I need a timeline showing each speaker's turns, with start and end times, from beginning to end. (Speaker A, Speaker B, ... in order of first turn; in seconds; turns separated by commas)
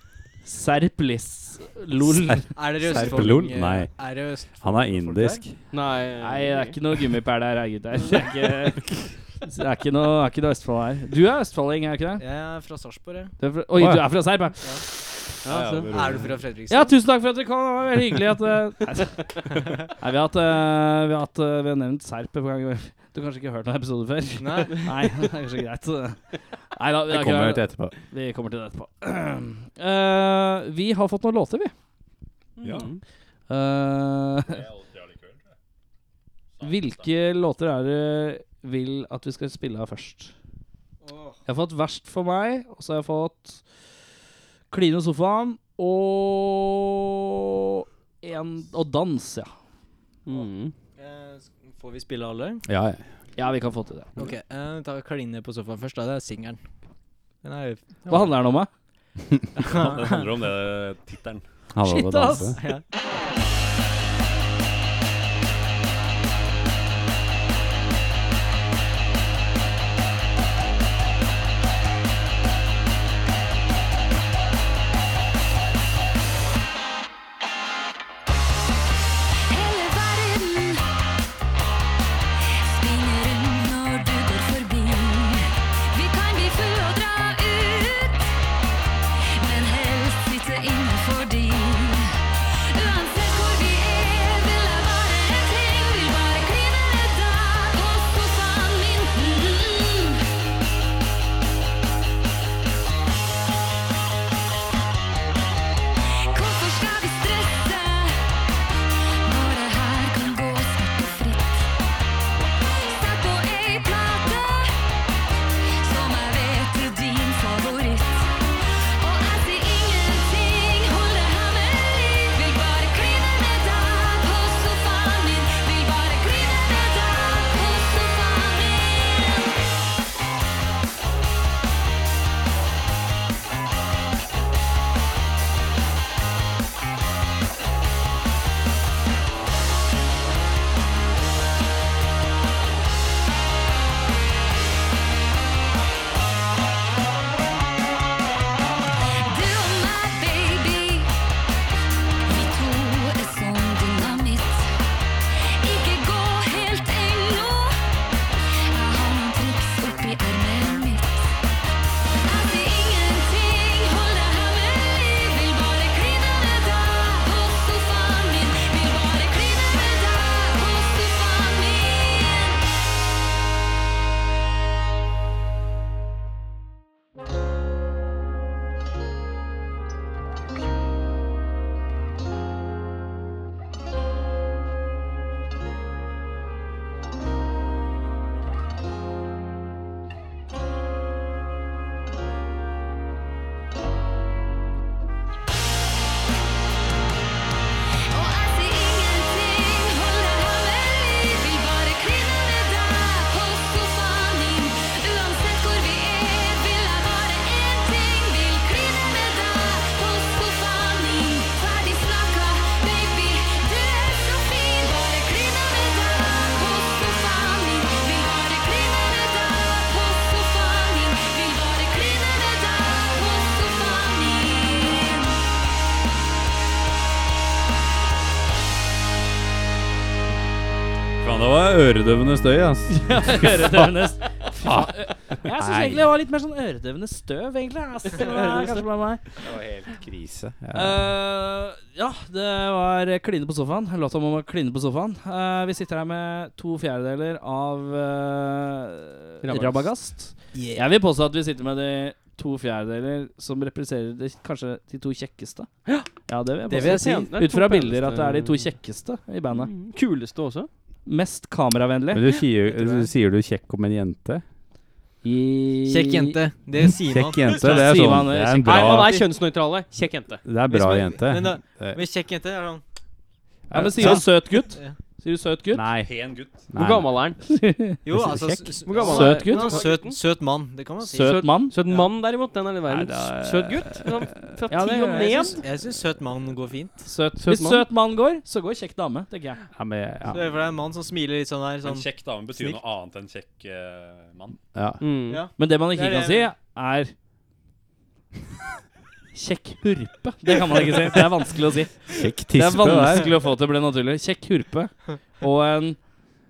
Speaker A: 0.5-3.3, Speaker B: 2.1-3.9, Speaker C: 2.5-5.4, Speaker B: 4.6-5.5, Speaker D: 5.7-6.8, Speaker A: 6.2-12.2, Speaker C: 12.2-13.3, Speaker A: 13.4-14.9, Speaker B: 13.8-14.1, Speaker D: 15.4-15.9, Speaker E: 15.5-16.4, Speaker C: 15.9-16.9, Speaker A: 16.7-19.4, Speaker A: 20.0-26.2, Speaker C: 24.4-24.9, Speaker A: 26.7-31.7, Speaker B: 27.1-27.9, Speaker D: 32.6-33.0, Speaker E: 32.6-32.9, Speaker A: 33.5-34.6, Speaker E: 34.5-35.5, Speaker E: 36.6-37.0, Speaker A: 36.6-40.3, Speaker C: 41.0-41.4, Speaker A: 41.5-43.6, Speaker A: 44.7-49.5, Speaker D: 50.3-50.7, Speaker C: 50.3-52.6, Speaker B: 52.7-53.0, Speaker A: 53.4-54.1, Speaker C: 54.2-56.6, Speaker C: 57.4-58.4, Speaker A: 58.1-58.7, Speaker C: 59.6-60.3, Speaker E: 59.7-61.4, Speaker B: 61.7-62.6, Speaker A: 61.9-62.8, Speaker C: 62.6-62.8, Speaker F: 79.5-80.8, Speaker F: 82.7-88.3, Speaker F: 89.4-100.2, Speaker F: 106.3-108.2, Speaker F: 109.3-111.7, Speaker F: 112.8-114.7, Speaker F: 115.8-118.3, Speaker F: 119.0-129.6, Speaker F: 149.2-151.1, Speaker F: 152.3-154.7, Speaker F: 155.6-157.8, Speaker F: 158.7-161.3, Speaker F: 162.2-172.6, Speaker F: 198.1-225.4, Speaker B: 231.2-233.9, Speaker A: 232.9-239.2, Speaker B: 234.6-234.9, Speaker B: 235.4-236.1, Speaker D: 238.3-238.7, Speaker B: 239.4-241.1, Speaker A: 240.7-255.7, Speaker D: 249.4-249.9, Speaker C: 250.6-250.9, Speaker A: 256.3-259.7, Speaker C: 256.7-257.3, Speaker D: 256.7-258.7, Speaker D: 259.5-260.7, Speaker A: 261.1-262.3, Speaker B: 262.1-264.4, Speaker C: 262.7-263.1, Speaker A: 265.2-266.4, Speaker C: 265.9-268.0, Speaker B: 266.9-269.1, Speaker A: 267.5-269.1, Speaker D: 268.6-270.4, Speaker B: 270.4-272.0, Speaker C: 270.7-272.8, Speaker B: 273.7-274.3, Speaker A: 273.7-275.9, Speaker C: 274.0-275.0, Speaker B: 275.7-276.1, Speaker E: 276.0-276.7, Speaker B: 276.7-277.1, Speaker D: 276.8-277.4, Speaker A: 277.5-278.0, Speaker C: 278.0-282.1, Speaker B: 278.1-278.8, Speaker D: 278.9-280.2, Speaker A: 279.0-279.8, Speaker A: 281.1-281.8, Speaker D: 281.2-285.6, Speaker B: 282.9-283.9, Speaker A: 284.7-285.6, Speaker C: 285.6-287.1, Speaker A: 287.1-289.6, Speaker D: 287.4-287.9, Speaker B: 289.8-290.4, Speaker C: 290.3-292.8, Speaker E: 291.8-294.6, Speaker B: 294.8-295.0, Speaker D: 295.0-295.4, Speaker C: 295.3-296.5, Speaker A: 295.6-297.1, Speaker A: 299.3-306.0, Speaker B: 302.1-303.3